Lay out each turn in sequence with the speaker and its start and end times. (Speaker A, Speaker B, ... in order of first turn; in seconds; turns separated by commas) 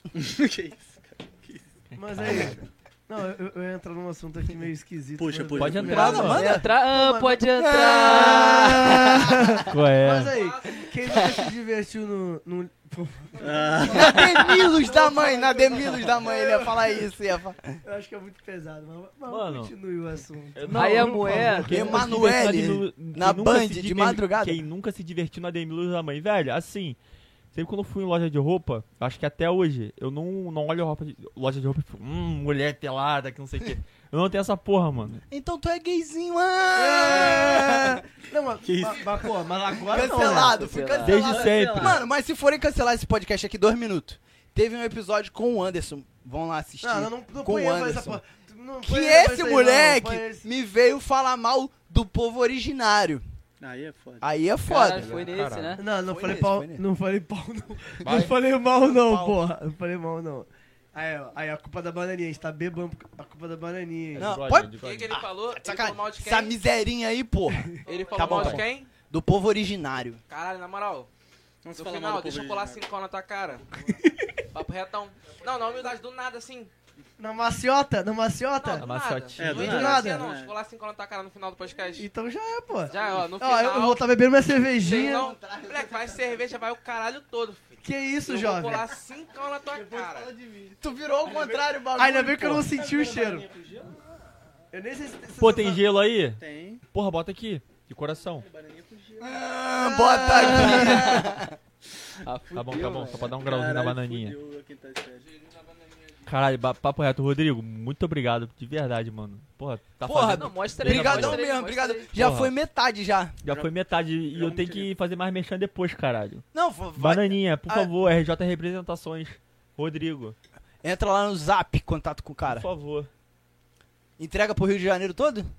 Speaker A: 0.1-1.6, Speaker B: 1.9-2.5, Speaker C: 2.0-17.1, Speaker A: 5.2-6.2, Speaker B: 5.5-6.4, Speaker D: 5.9-6.7, Speaker E: 6.2-9.0, Speaker D: 7.5-9.6, Speaker B: 9.7-10.3, Speaker F: 10.3-10.9, Speaker A: 13.4-14.4, Speaker D: 13.9-17.8, Speaker C: 17.8-22.1, Speaker B: 19.3-19.7, Speaker B: 20.5-27.0, Speaker E: 20.7-21.9, Speaker D: 21.7-24.6, Speaker B: 27.5-35.2, Speaker D: 35.3-38.0, Speaker C: 36.8-40.6, Speaker A: 38.6-39.3, Speaker D: 39.8-48.2, Speaker E: 40.2-41.1, Speaker B: 41.0-42.0, Speaker A: 41.1-42.0, Speaker C: 46.8-50.5, Speaker D: 48.8-53.2, Speaker A: 53.6-54.2, Speaker D: 54.2-55.2, Speaker E: 54.7-55.8, Speaker B: 54.9-55.8, Speaker C: 55.8-64.3, Speaker D: 56.0-56.8, Speaker B: 58.0-58.3, Speaker D: 58.0-59.4, Speaker B: 64.1-65.2, Speaker D: 64.2-70.2, Speaker F: 64.7-66.6, Speaker F: 67.8-68.9, Speaker B: 68.2-68.6, Speaker F: 70.3-71.1, Speaker A: 71.6-72.8, Speaker F: 71.7-73.6, Speaker C: 74.0-74.3, Speaker F: 74.5-76.7, Speaker C: 77.2-78.8, Speaker F: 78.6-82.1, Speaker B: 78.8-79.7, Speaker A: 79.4-80.5, Speaker C: 79.5-80.3, Speaker C: 81.9-85.3, Speaker F: 82.9-84.0, Speaker F: 84.7-90.3, Speaker D: 84.8-86.4, Speaker C: 87.8-88.9, Speaker A: 89.7-91.7, Speaker D: 90.8-92.7, Speaker C: 91.9-93.5, Speaker A: 92.6-93.9, Speaker C: 94.7-95.8, Speaker B: 95.4-96.4, Speaker A: 96.4-96.8, Speaker B: 96.9-98.5, Speaker A: 98.3-99.4, Speaker D: 99.2-101.5, Speaker C: 100.1-101.1, Speaker E: 100.2-101.2, Speaker E: 102.2-103.3, Speaker B: 102.5-104.3, Speaker A: 103.4-105.3, Speaker B: 106.2-111.4, Speaker E: 110.0-112.1, Speaker D: 110.1-113.4, Speaker B: 112.2-112.5, Speaker B: 113.4-116.4, Speaker A: 113.5-113.7, Speaker A: 114.3-114.9, Speaker D: 116.5-117.9, Speaker B: 117.0-120.3, Speaker D: 120.8-122.7, Speaker B: 122.4-123.1, Speaker D: 124.2-125.5